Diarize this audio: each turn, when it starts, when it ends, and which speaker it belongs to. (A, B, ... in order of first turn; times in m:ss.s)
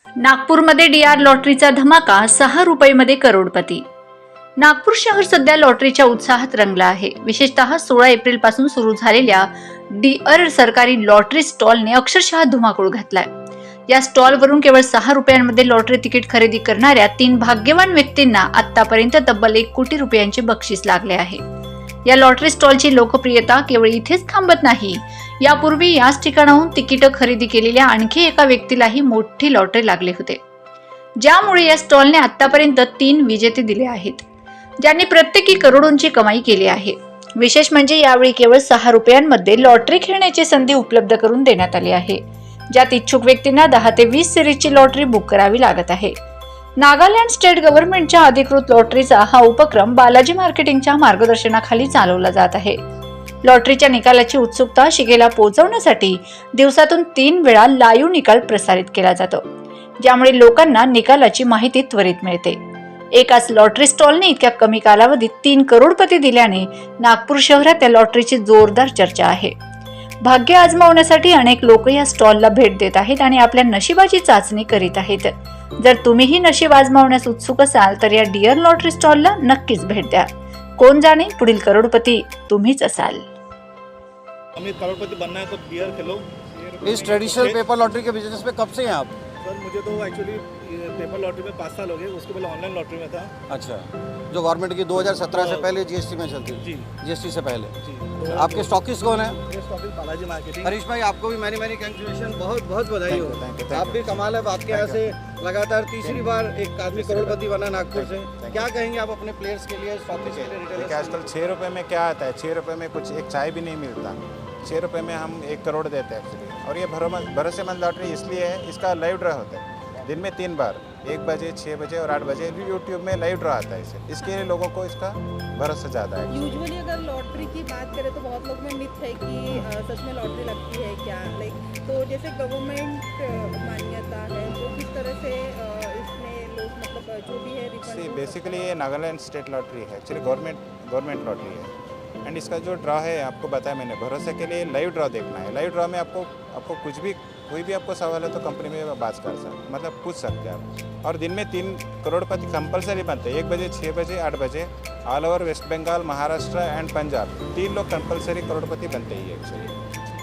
0:00.2-0:03.9 A
0:04.6-0:13.3 A
0:13.9-0:21.4 A
0:22.1-0:30.4 A
0:31.2-0:34.2 A
0:34.8-0:42.2 A
0:42.7-0:46.2 A
0:46.8-0:52.8 A
0:53.4-0:59.4 A
1:00.0-1:02.6 A
1:03.2-1:09.6 A
1:10.2-1:23.3 A
1:24.6-1:27.6 B
1:26.8-1:29.1 C
1:29.4-1:33.3 B
1:33.5-1:39.4 C
1:35.1-1:35.7 B
1:36.6-1:36.9 B
1:37.8-1:38.8 B
1:39.4-1:40.8 B
1:40.6-1:51.3 C
1:43.1-1:45.0 D
1:46.9-1:48.7 D
1:50.3-2:06.7 D
2:06.3-2:18.7 E
2:17.8-2:21.7 D
2:22.2-2:39.7 D